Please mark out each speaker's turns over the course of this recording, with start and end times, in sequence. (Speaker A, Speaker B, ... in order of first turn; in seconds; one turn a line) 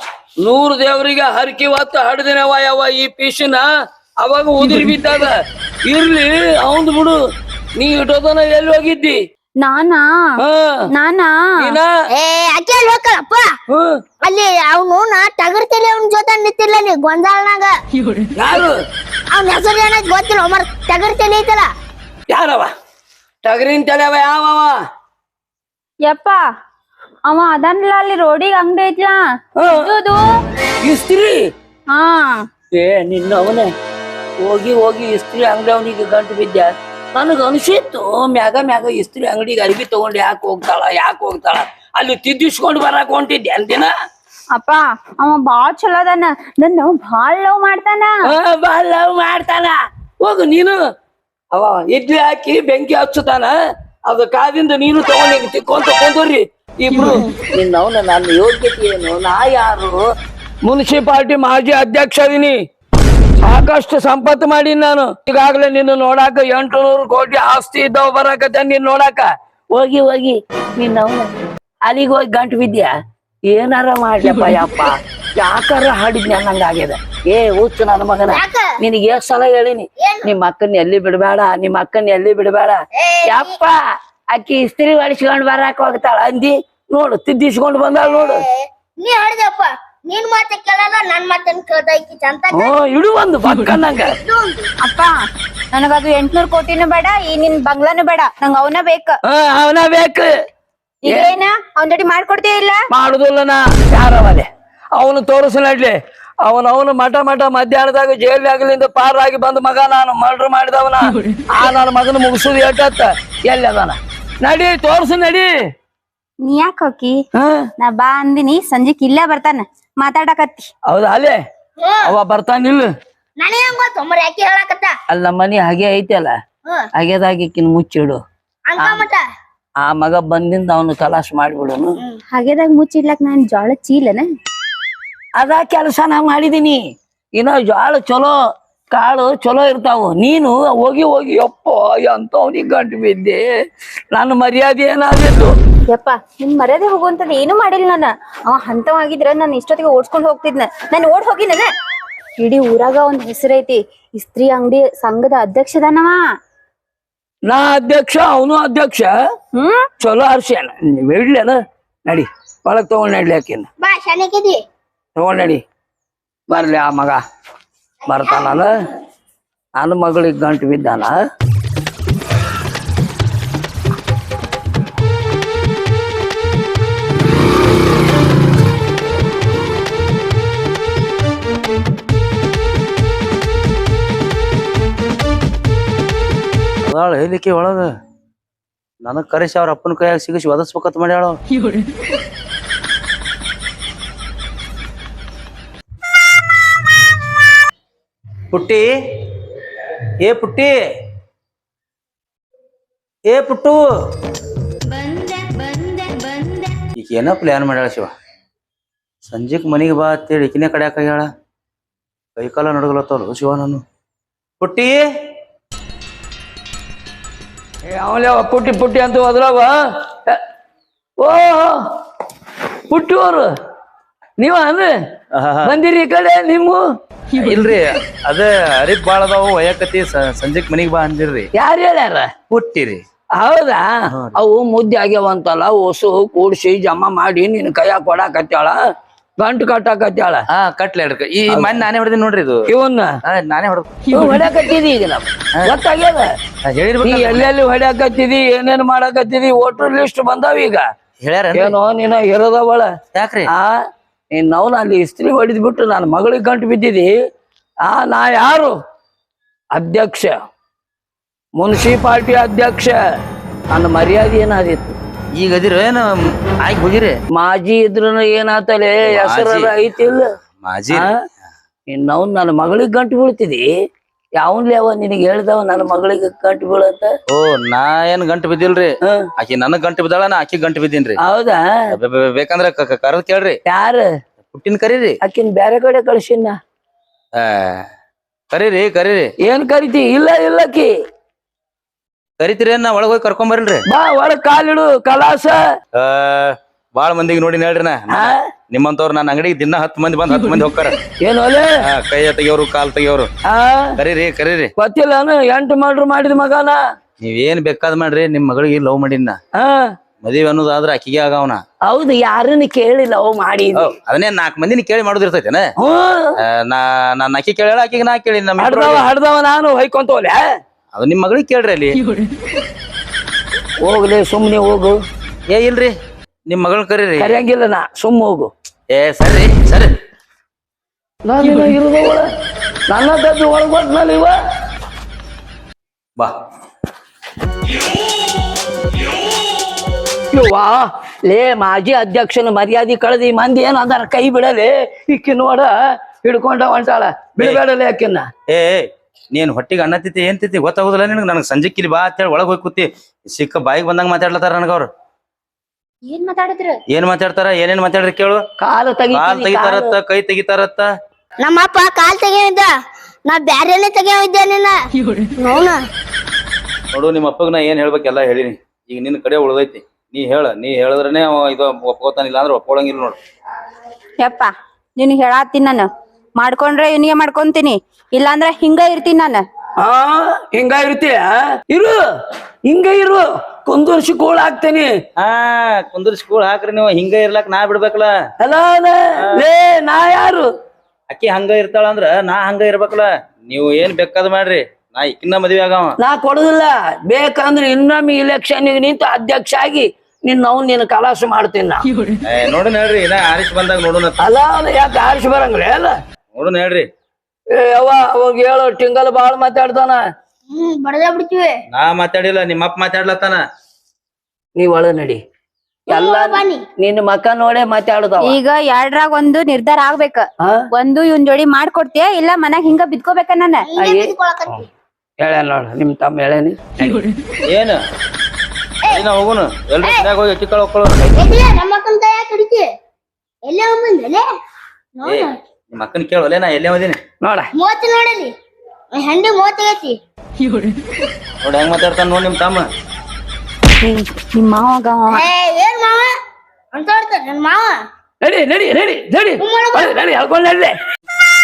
Speaker A: 0.4-3.7
Speaker A: 4.2-5.3
Speaker B: 4.6-5.0
Speaker A: 5.9-7.2
Speaker A: 7.8-9.2
Speaker B: 9.6-10.4
Speaker A: 10.4-10.9
Speaker B: 10.9-11.8
Speaker A: 11.6-11.9
Speaker C: 12.1-13.5
Speaker A: 13.7-14.0
Speaker C: 14.2-17.7
Speaker A: 18.4-18.8
Speaker C: 19.3-21.7
Speaker A: 22.3-22.7
Speaker A: 23.4-24.8
Speaker B: 26.1-26.4
Speaker B: 27.3-30.3
Speaker A: 29.6-29.9
Speaker A: 30.8-31.4
Speaker B: 31.9-32.5
Speaker A: 32.7-33.7
Speaker A: 34.4-43.9
Speaker B: 44.5-48.2
Speaker A: 48.2-50.8
Speaker A: 51.5-53.5
Speaker A: 54.1-60.1
Speaker A: 60.6-62.6
Speaker A: 63.4-71.3
Speaker A: 71.9-72.9
Speaker A: 73.5-83.8
Speaker C: 78.3-78.7
Speaker C: 80.0-80.3
Speaker C: 83.0-83.5
Speaker A: 84.3-88.5
Speaker C: 88.2-88.4
Speaker C: 89.0-92.7
Speaker A: 92.5-94.1
Speaker C: 94.2-94.7
Speaker B: 94.8-95.2
Speaker B: 95.7-99.2
Speaker A: 99.3-100.3
Speaker B: 101.0-102.8
Speaker A: 102.9-115.5
Speaker B: 116.4-117.2
Speaker A: 117.3-117.7
Speaker B: 117.8-120.7
Speaker A: 120.9-121.4
Speaker C: 121.8-122.1
Speaker A: 122.0-122.9
Speaker C: 123.4-124.9
Speaker A: 125.1-126.4
Speaker A: 127.0-128.2
Speaker C: 128.7-129.2
Speaker A: 128.8-129.1
Speaker A: 129.8-132.0
Speaker B: 132.3-134.3
Speaker A: 135.4-136.8
Speaker A: 137.4-138.4
Speaker A: 138.9-143.5
Speaker A: 144.1-145.5
Speaker B: 145.9-151.7
Speaker B: 152.4-156.2
Speaker A: 157.5-159.1
Speaker B: 159.6-159.9
Speaker A: 160.0-163.7
Speaker C: 163.8-164.6
Speaker A: 165.2-165.6
Speaker A: 166.5-167.2
Speaker A: 168.1-168.7
Speaker A: 169.8-171.2
Speaker D: 186.8-187.9
Speaker D: 189.0-191.4
Speaker D: 198.5-198.9
Speaker D: 200.2-200.7
Speaker D: 203.3-203.8
Speaker D: 207.0-208.1
Speaker D: 209.3-211.3
Speaker D: 212.4-213.8
Speaker D: 214.6-215.0
Speaker A: 217.9-220.4
Speaker A: 221.2-221.8
Speaker A: 222.9-223.5
Speaker A: 224.4-224.9
Speaker D: 225.3-225.8
Speaker A: 225.6-226.8
Speaker D: 227.3-231.5
Speaker A: 231.6-232.3
Speaker D: 232.5-233.0
Speaker A: 233.4-238.8
Speaker D: 234.1-234.4
Speaker A: 239.4-240.4
Speaker D: 240.5-242.6
Speaker A: 241.5-241.8
Speaker A: 242.7-243.1
Speaker D: 243.2-244.2
Speaker A: 244.1-246.3
Speaker D: 246.7-247.5
Speaker A: 247.0-250.8
Speaker D: 251.2-251.8
Speaker A: 251.5-252.9
Speaker D: 253.1-253.5
Speaker A: 253.5-253.8
Speaker A: 254.3-257.1
Speaker A: 257.8-258.8
Speaker A: 259.7-260.4
Speaker A: 261.6-263.0
Speaker A: 263.7-265.0
Speaker D: 265.4-266.1
Speaker D: 266.6-267.1
Speaker A: 267.3-270.3
Speaker D: 269.1-269.8
Speaker D: 270.6-271.1
Speaker A: 271.9-273.7
Speaker A: 274.4-277.1
Speaker D: 277.3-281.2
Speaker A: 281.2-281.6
Speaker D: 281.9-283.6
Speaker A: 283.7-284.1
Speaker D: 284.5-285.1
Speaker A: 285.2-286.6
Speaker D: 287.4-287.9
Speaker D: 288.5-289.3
Speaker A: 289.4-290.9
Speaker D: 292.4-293.8
Speaker A: 293.9-295.6
Speaker D: 296.0-301.0
Speaker A: 298.1-298.5
Speaker A: 301.2-301.7
Speaker D: 301.8-303.3
Speaker A: 303.5-304.0
Speaker D: 304.0-304.7
Speaker A: 304.8-306.8
Speaker D: 307.2-309.4
Speaker A: 309.6-309.9
Speaker D: 310.2-311.6
Speaker A: 311.9-313.9
Speaker D: 313.8-315.7
Speaker A: 315.8-316.4
Speaker D: 316.4-319.1
Speaker A: 318.6-320.4
Speaker D: 320.9-322.0
Speaker A: 323.8-325.0
Speaker D: 325.5-325.9
Speaker D: 326.5-327.4
Speaker A: 327.2-328.5
Speaker D: 328.9-329.9
Speaker A: 331.3-332.3
Speaker A: 332.9-334.4
Speaker A: 340.3-348.3
Speaker D: 348.5-354.9
Speaker B: 356.1-356.8
Speaker D: 356.9-358.4
Speaker A: 358.6-360.0
Speaker D: 359.1-360.9
Speaker C: 361.4-362.7
Speaker C: 363.3-364.8
Speaker C: 365.4-365.8
Speaker D: 366.9-373.2
Speaker B: 374.2-379.4
Speaker A: 379.8-382.0
Speaker A: 382.6-384.9
Speaker D: 385.2-388.1
Speaker A: 388.4-390.5
Speaker D: 391.1-396.0
Speaker A: 396.0-401.9
Speaker D: 402.3-404.2
Speaker A: 404.2-405.9
Speaker D: 406.3-406.9
Speaker A: 407.5-410.0
Speaker C: 410.5-411.6
Speaker D: 411.7-413.4
Speaker A: 414.6-415.2
Speaker A: 415.9-418.4
Speaker C: 415.9-416.6
Speaker B: 418.2-423.7
Speaker C: 423.7-424.6
Speaker A: 423.8-424.1
Speaker A: 425.2-427.1
Speaker D: 427.5-427.8
Speaker D: 428.9-431.4
Speaker C: 431.2-432.7
Speaker C: 433.5-434.2
Speaker C: 435.0-435.3
Speaker D: 435.1-437.0
Speaker A: 437.2-437.5
Speaker C: 437.6-438.3
Speaker C: 439.0-439.9
Speaker D: 441.4-442.6
Speaker B: 443.8-445.3
Speaker C: 445.1-446.1
Speaker C: 446.7-447.8
Speaker A: 448.2-450.7
Speaker C: 449.4-449.9